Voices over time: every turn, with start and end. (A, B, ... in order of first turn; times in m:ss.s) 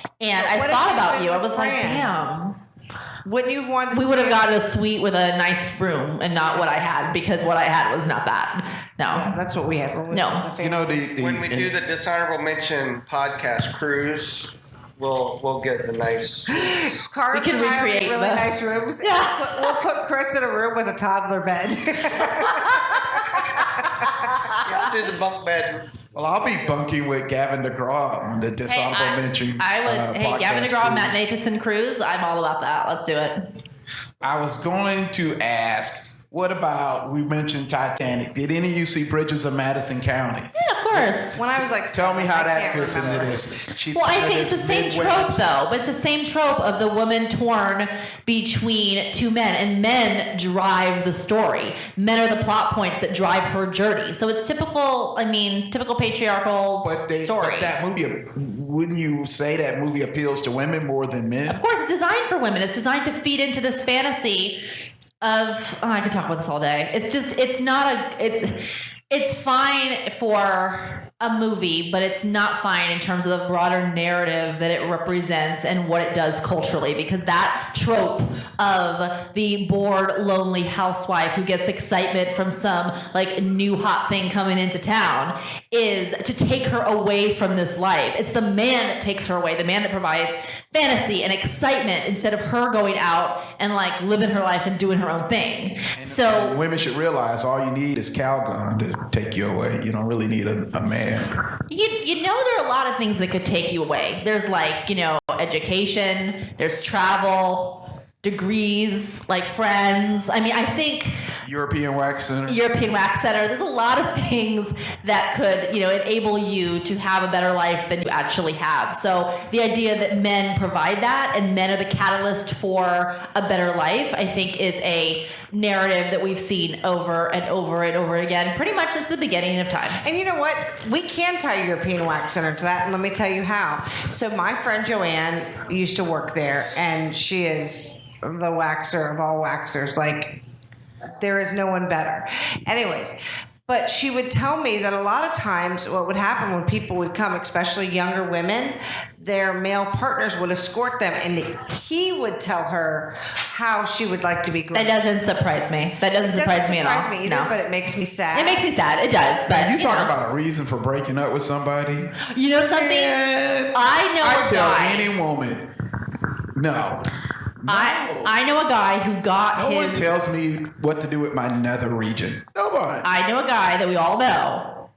0:00.2-0:02.6 A
0:00.4-0:02.1 B
0:03.2-0:04.5 B
0:03.9-0:09.4 A
0:06.5-0:06.9 B
0:09.1-0:11.1 B
0:10.1-0:10.5 A
0:10.6-0:11.7 C
0:11.1-0:17.0 D
0:16.6-0:24.2 B
0:17.3-0:19.8 A
0:24.6-0:26.0 D
0:26.1-0:31.2 C
0:28.7-0:33.5 A
0:34.2-0:45.5 C
0:40.6-0:41.4 A
0:41.4-0:43.4 B
0:43.9-0:57.8 A
0:56.8-1:01.6 C
1:01.5-1:04.6 A
1:05.2-1:08.6 A
1:09.1-1:36.6 A
1:36.0-1:41.4 C
1:41.7-1:51.2 A
1:51.4-1:52.6 C
1:52.5-2:10.0 A
2:10.0-2:20.4 B
2:21.2-2:35.0 B
2:34.7-2:37.5 A
2:36.3-2:38.7 B
2:38.3-2:40.1 A
2:39.5-2:42.2 C
2:42.3-2:43.2 A
2:42.7-2:45.7 C
2:43.7-2:45.1 A
2:46.6-2:47.1 C
2:47.6-2:48.3 C
2:47.7-2:50.1 A
2:49.6-2:53.1 C
2:53.0-2:54.7 A